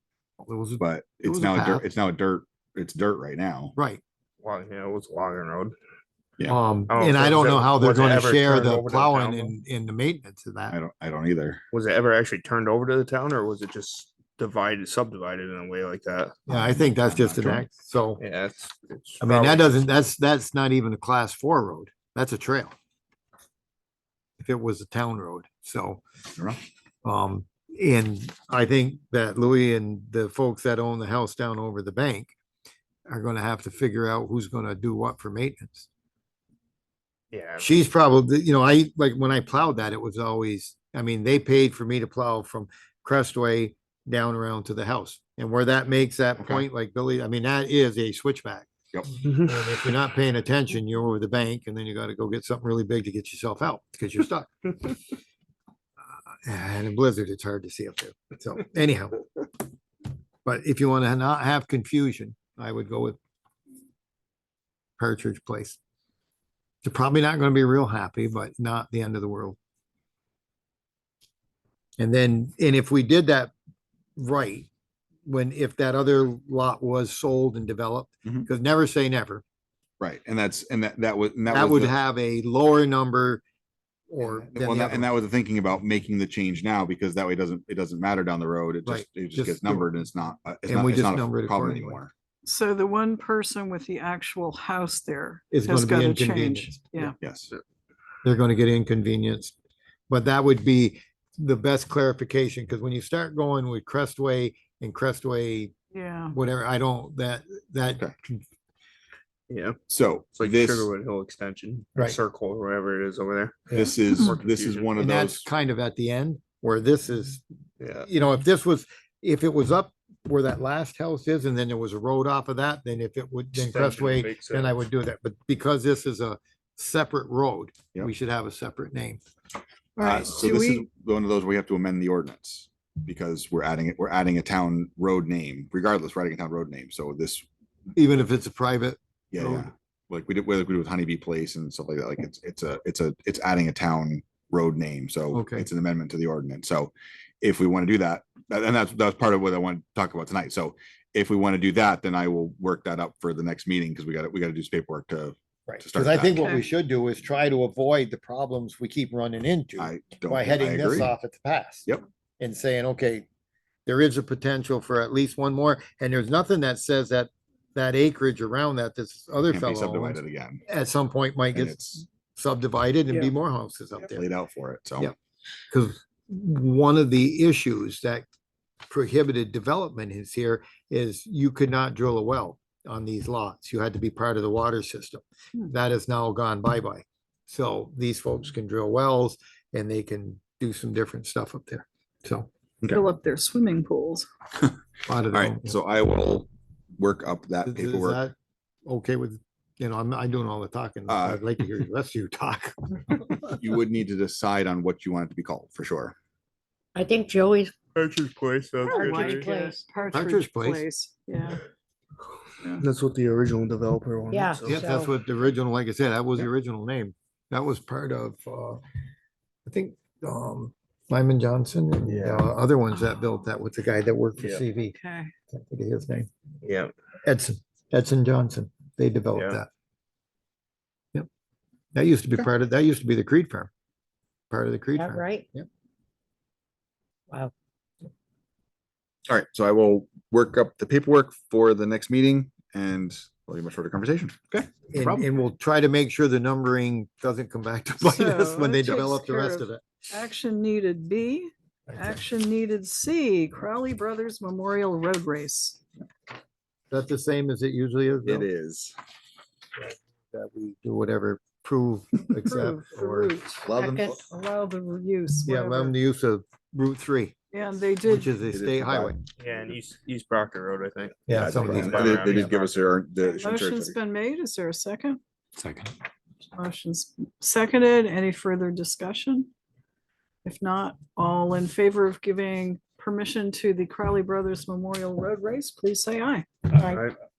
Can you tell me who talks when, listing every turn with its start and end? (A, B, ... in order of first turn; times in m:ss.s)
0:00.4-0:01.9 A
0:00.8-0:03.8 B
0:03.8-0:04.0 A
0:04.4-0:05.8 C
0:06.5-0:10.8 A
0:06.9-0:09.5 C
0:10.7-0:11.6 B
0:11.7-0:16.4 C
0:16.5-0:18.2 A
0:16.5-0:17.7 B
0:18.2-0:19.7 C
0:19.2-0:22.8 A
0:24.4-0:26.0 A
0:27.0-0:32.3 A
0:33.1-0:35.9 A
0:37.3-0:37.8 C
0:37.6-0:54.6 A
0:46.4-0:46.6 B
0:56.1-0:59.2 A
1:00.4-1:03.2 A
1:05.0-1:05.8 A
1:06.8-1:09.6 A
1:12.0-1:13.5 A
1:14.2-1:14.7 A
1:15.3-1:19.4 A
1:20.0-1:21.9 B
1:21.5-1:23.4 A
1:24.1-1:25.1 A
1:24.2-1:32.1 B
1:28.8-1:29.9 A
1:30.7-1:32.0 A
1:32.4-1:37.2 D
1:35.5-1:37.1 A
1:37.2-1:37.5 B
1:38.2-1:39.5 A
1:40.1-1:45.7 A
1:45.9-1:46.4 D
1:46.3-1:48.4 A
1:49.5-1:49.8 C
1:49.9-1:50.9 B
1:50.3-1:55.1 C
1:53.7-1:55.5 B
1:55.0-1:57.4 A
1:57.8-1:58.1 C
1:58.0-2:09.2 A
2:03.6-2:04.8 C
2:10.0-2:10.8 D
2:10.0-2:17.4 B
2:18.0-2:19.7 A
2:19.3-2:36.6 B
2:25.3-2:25.7 A
2:35.7-2:41.9 A
2:39.8-2:41.1 B
2:42.4-2:43.2 A
2:43.8-2:54.3 A
2:49.5-2:50.6 B
2:51.5-2:52.0 B
2:54.0-2:55.1 B
2:55.7-2:58.2 A
2:58.9-3:12.5 A
3:12.9-3:14.3 D
3:15.0-3:15.7 A
3:15.3-3:18.2 B
3:17.7-3:18.3 A
3:18.8-3:23.2 A
3:21.1-3:21.4 B
3:23.4-3:26.2 B
3:26.9-3:27.8 E
3:27.9-3:29.5 C
3:28.8-3:31.6 D
3:28.9-3:29.8 E
3:30.1-3:30.8 A
3:32.8-3:34.8 C
3:34.3-3:35.1 E
3:34.6-3:38.8 A
3:39.7-3:45.0 A
3:42.1-3:42.5 C
3:44.8-3:45.3 D
3:45.5-3:46.3 A
3:46.6-3:46.9 C
3:47.2-3:49.7 A
3:49.3-3:49.6 C
3:51.9-3:53.7 A
3:54.5-3:55.7 A
3:55.0-3:55.5 E
3:59.3-4:05.2 B
4:04.9-4:09.8 A
4:08.0-4:15.8 D
4:11.9-4:12.2 A
4:16.9-4:18.5 A
4:18.2-4:18.9 B
4:19.8-4:23.3 A
4:22.4-4:25.9 D
4:23.6-4:24.2 B
4:23.8-4:24.2 E
4:25.5-4:27.4 A
4:27.5-4:28.3 D
4:28.0-4:29.2 A
4:28.5-4:29.7 B
4:29.4-4:32.7 C
4:31.3-4:32.4 A
4:31.4-4:34.0 B
4:33.4-4:35.2 D
4:35.6-4:35.9 B
4:36.5-4:39.5 D
4:40.4-4:46.8 D
4:46.8-4:47.1 C